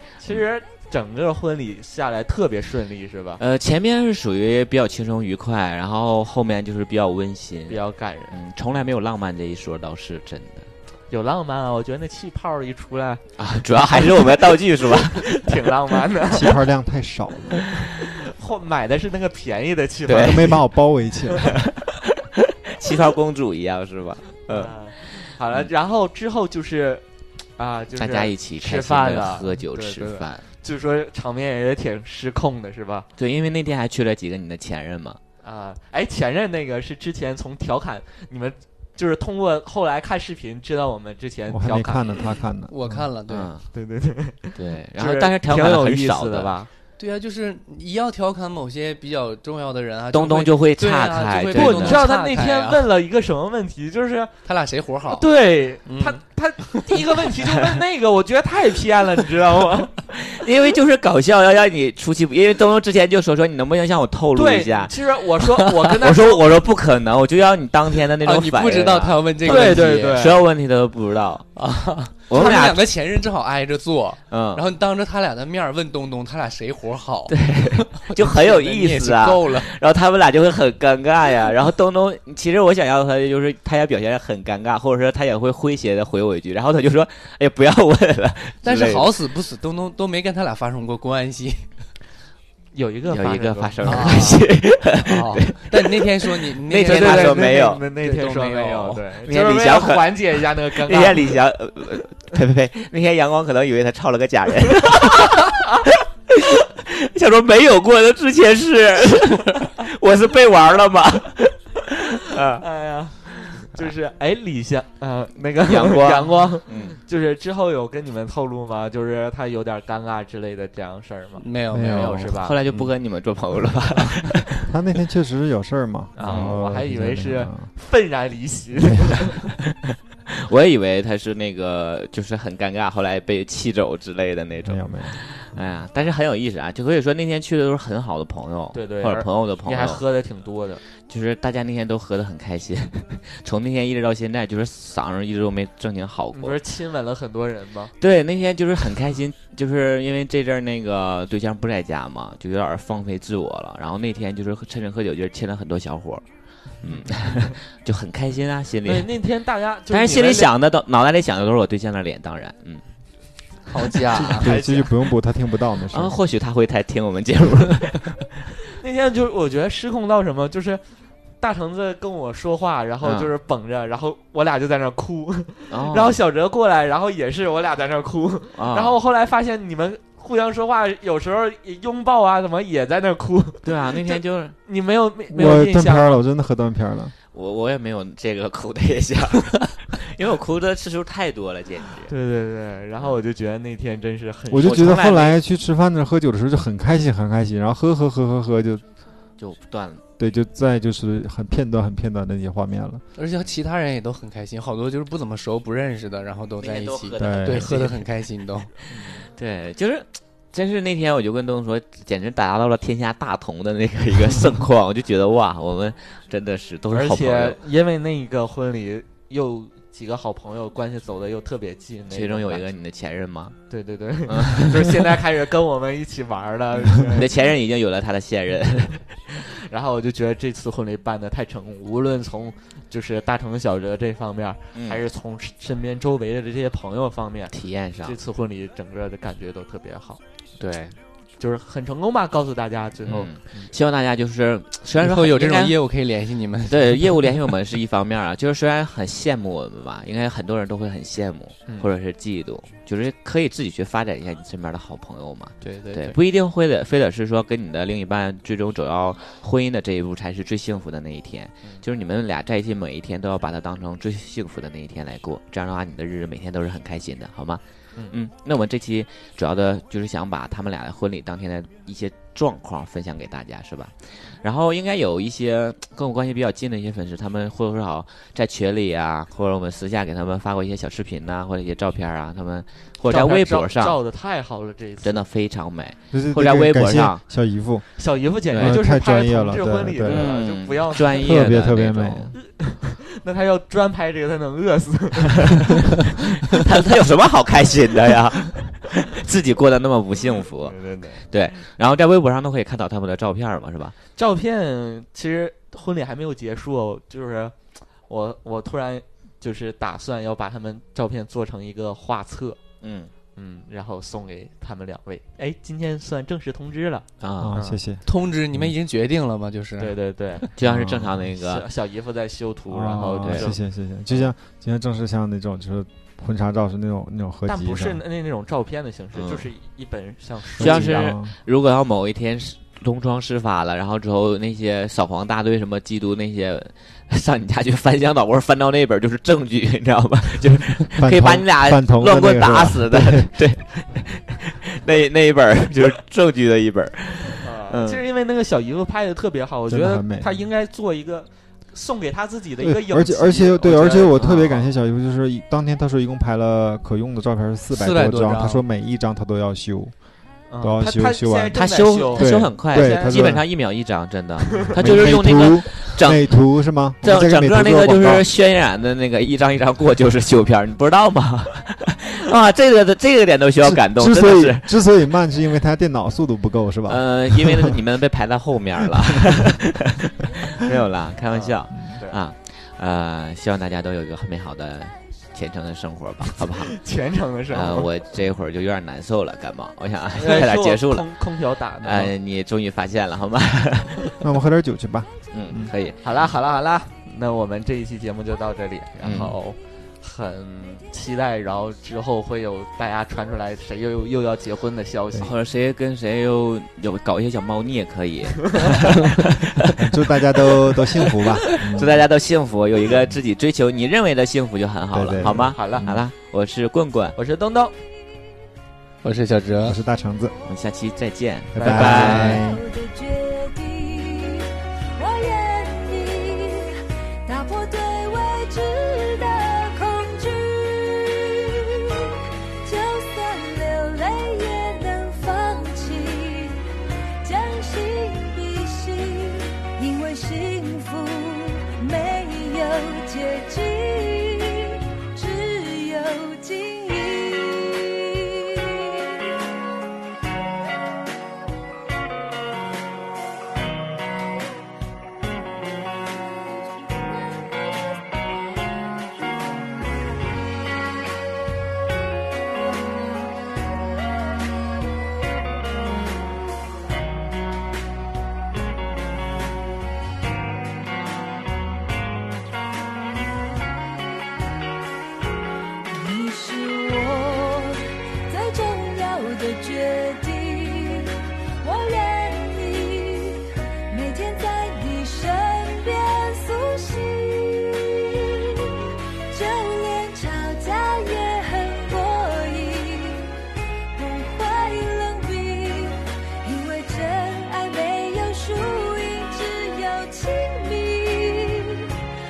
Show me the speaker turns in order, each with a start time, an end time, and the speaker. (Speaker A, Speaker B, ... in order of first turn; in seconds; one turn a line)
Speaker A: 0.2-3.4
Speaker B: 3.4-7.8
Speaker A: 7.7-8.3
Speaker B: 8.3-10.7
Speaker A: 11.1-13.2
Speaker B: 13.4-15.4
Speaker A: 15.1-16.6
Speaker C: 16.3-17.6
Speaker A: 17.8-20.6
Speaker B: 20.1-20.6
Speaker C: 20.1-21.5
Speaker B: 21.6-22.1
Speaker B: 22.7-25.6
Speaker A: 24.5-27.0
Speaker A: 27.6-33.1
Speaker B: 27.9-30.4
Speaker B: 33.2-35.2
Speaker A: 35.4-42.2
Speaker C: 41.5-43.1
Speaker D: 42.7-43.5
Speaker B: 43.3-43.6
Speaker A: 43.7-46.7
Speaker B: 44.5-46.5
Speaker D: 47.0-52.9
Speaker B: 50.1-52.0
Speaker A: 51.5-54.3
Speaker D: 54.4-55.3
Speaker A: 55.1-60.0
Speaker D: 55.9-56.2
Speaker B: 60.1-71.5
Speaker A: 64.3-66.5
Speaker D: 68.2-70.2
Speaker A: 69.4-70.4
Speaker D: 71.5-79.7
Speaker B: 72.3-72.8
Speaker A: 72.3-72.6
Speaker B: 74.3-74.6
Speaker B: 77.3-89.1
Speaker D: 88.6-91.7
Speaker A: 92.7-94.4
Speaker B: 93.1-97.8
Speaker D: 93.8-94.5
Speaker D: 95.0-99.0
Speaker A: 96.8-101.3
Speaker B: 99.2-100.3
Speaker B: 100.8-112.6
Speaker A: 104.9-105.5
Speaker A: 112.6-122.9
Speaker B: 115.6-117.0
Speaker D: 121.4-122.3
Speaker C: 121.7-122.3
Speaker B: 122.4-124.5
Speaker C: 124.7-127.7
Speaker A: 126.2-129.5
Speaker B: 126.2-126.5
Speaker B: 130.3-140.0
Speaker C: 134.6-135.2
Speaker A: 138.7-140.8
Speaker B: 141.0-146.6
Speaker A: 146.3-147.9
Speaker B: 148.0-156.2
Speaker B: 156.8-159.1
Speaker A: 156.8-157.2
Speaker A: 158.8-160.5
Speaker B: 159.9-162.8
Speaker D: 163.7-164.5
Speaker A: 164.3-164.9
Speaker C: 164.3-166.1
Speaker B: 165.9-168.3
Speaker A: 168.7-170.8
Speaker A: 171.4-186.2
Speaker B: 173.0-173.3
Speaker B: 175.7-176.2
Speaker B: 178.6-178.9
Speaker B: 183.6-184.6
Speaker C: 185.3-187.1
Speaker B: 187.3-192.1
Speaker A: 192.1-195.4
Speaker C: 194.5-198.8
Speaker B: 194.7-195.1
Speaker B: 199.4-200.0
Speaker C: 200.2-203.0
Speaker D: 203.2-208.7
Speaker B: 206.6-208.1
Speaker C: 207.2-207.7
Speaker A: 208.9-209.2
Speaker B: 209.2-217.6
Speaker A: 216.9-222.7
Speaker B: 222.1-223.6
Speaker A: 223.7-227.3
Speaker B: 224.3-225.0
Speaker B: 226.8-229.2
Speaker A: 229.4-240.2
Speaker B: 234.7-235.0
Speaker B: 237.5-238.2
Speaker B: 240.6-241.0
Speaker A: 241.4-243.7
Speaker B: 243.1-245.8
Speaker D: 245.0-247.2
Speaker B: 246.6-284.0
Speaker D: 255.6-256.2
Speaker A: 283.0-285.2
Speaker B: 285.0-287.2
Speaker C: 286.1-287.9
Speaker A: 288.0-291.4
Speaker B: 288.5-288.8
Speaker C: 288.5-290.3
Speaker B: 290.0-292.3
Speaker C: 291.1-292.4
Speaker A: 292.3-295.9
Speaker B: 296.5-303.9
Speaker A: 300.6-301.3
Speaker A: 304.2-307.6
Speaker A: 308.1-312.6
Speaker B: 312.8-313.1
Speaker A: 313.4-317.8
Speaker B: 317.2-317.6
Speaker C: 317.4-318.0
Speaker D: 318.0-320.0
Speaker A: 319.8-320.5
Speaker B: 320.6-321.7
Speaker C: 320.6-321.2
Speaker A: 321.4-323.6
Speaker C: 322.7-328.0
Speaker B: 323.2-323.5
Speaker A: 327.4-331.0
Speaker B: 329.1-329.4
Speaker C: 330.6-331.3
Speaker B: 330.6-348.0
Speaker C: 341.0-343.3
Speaker A: 347.4-354.7
Speaker C: 349.7-350.3
Speaker C: 352.6-359.9
Speaker D: 357.7-358.6
Speaker A: 360.5-363.4
Speaker C: 360.6-361.6
Speaker B: 361.5-366.4
Speaker C: 362.1-363.4
Speaker C: 364.8-368.2
Speaker B: 367.0-374.7
Speaker C: 373.6-377.8
Speaker B: 376.9-386.8
Speaker A: 381.3-382.2
Speaker A: 386.7-387.9
Speaker B: 387.5-391.1
Speaker A: 390.1-392.1
Speaker B: 391.8-394.2
Speaker C: 394.2-395.7
Speaker B: 395.3-396.0
Speaker A: 396.0-405.3
Speaker B: 399.0-399.3
Speaker B: 405.2-409.7
Speaker C: 409.7-412.0
Speaker B: 411.1-417.2
Speaker C: 414.9-416.0
Speaker A: 415.2-415.9
Speaker A: 417.1-417.7
Speaker D: 419.0-419.8
Speaker C: 419.6-420.3
Speaker B: 420.4-422.3
Speaker C: 421.5-422.6
Speaker D: 421.7-422.4
Speaker E: 422.2-436.6
Speaker E: 437.2-449.3
Speaker E: 475.9-493.3
Speaker E: 493.9-501.9